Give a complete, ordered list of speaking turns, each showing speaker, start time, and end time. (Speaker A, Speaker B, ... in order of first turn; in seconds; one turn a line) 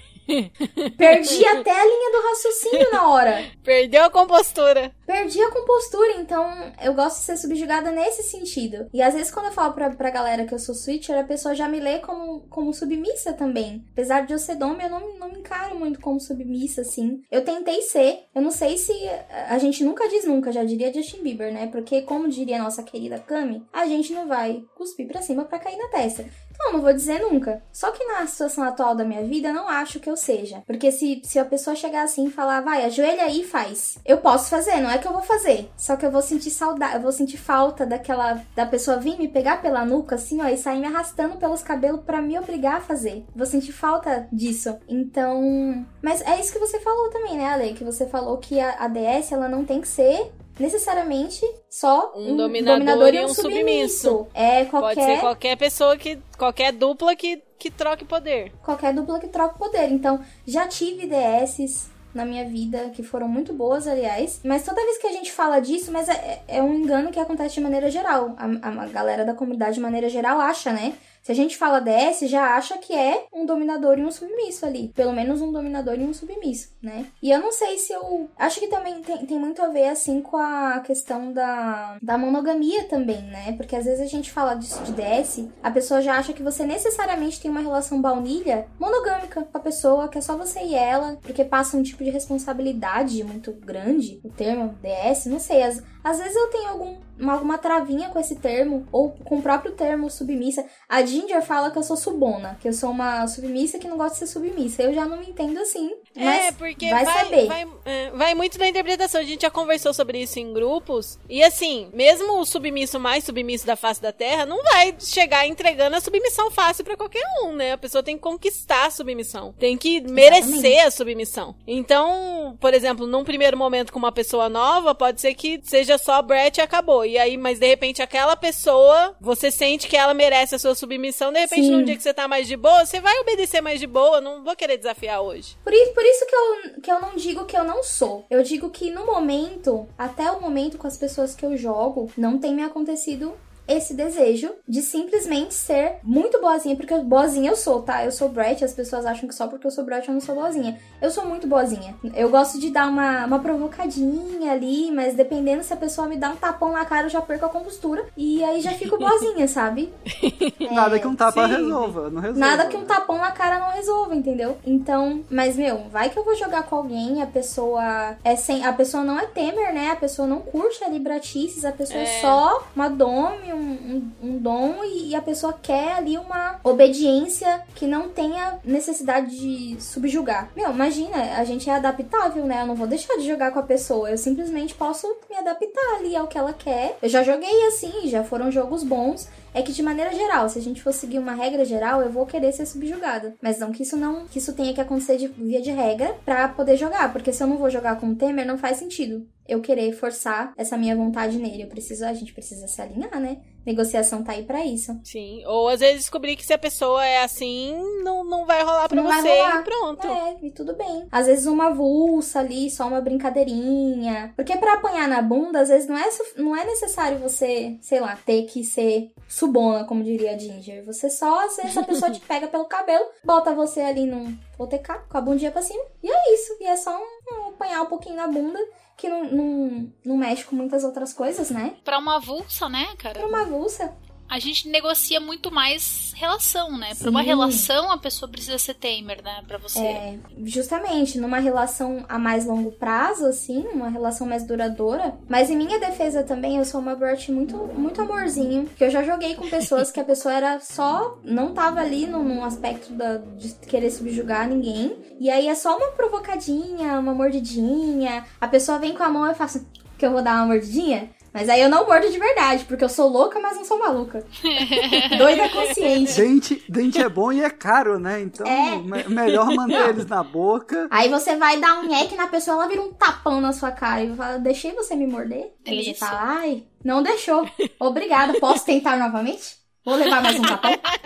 Speaker A: 0.3-1.4
Speaker B: 1.0-3.5
Speaker A: 3.6-4.9
Speaker B: 5.1-55.3
Speaker A: 52.1-54.2
Speaker A: 54.8-58.5
Speaker B: 58.6-107.6
Speaker A: 106.2-135.6
Speaker B: 120.1-120.8
Speaker B: 131.5-132.0
Speaker B: 135.7-159.9
Speaker A: 160.2-160.7
Speaker B: 160.6-161.2
Speaker C: 160.7-163.0
Speaker A: 161.3-161.9
Speaker B: 162.3-205.0
Speaker A: 171.9-172.4
Speaker A: 205.0-210.2
Speaker B: 208.9-231.8
Speaker D: 231.8-233.4
Speaker B: 233.2-233.9
Speaker D: 234.3-240.0
Speaker B: 236.9-237.7
Speaker B: 239.8-264.2
Speaker D: 264.5-265.3
Speaker B: 264.8-266.2
Speaker A: 265.0-266.0
Speaker C: 266.1-270.9
Speaker B: 268.4-268.9
Speaker A: 269.3-270.0
Speaker B: 270.9-280.8
Speaker D: 275.6-276.2
Speaker A: 280.2-280.8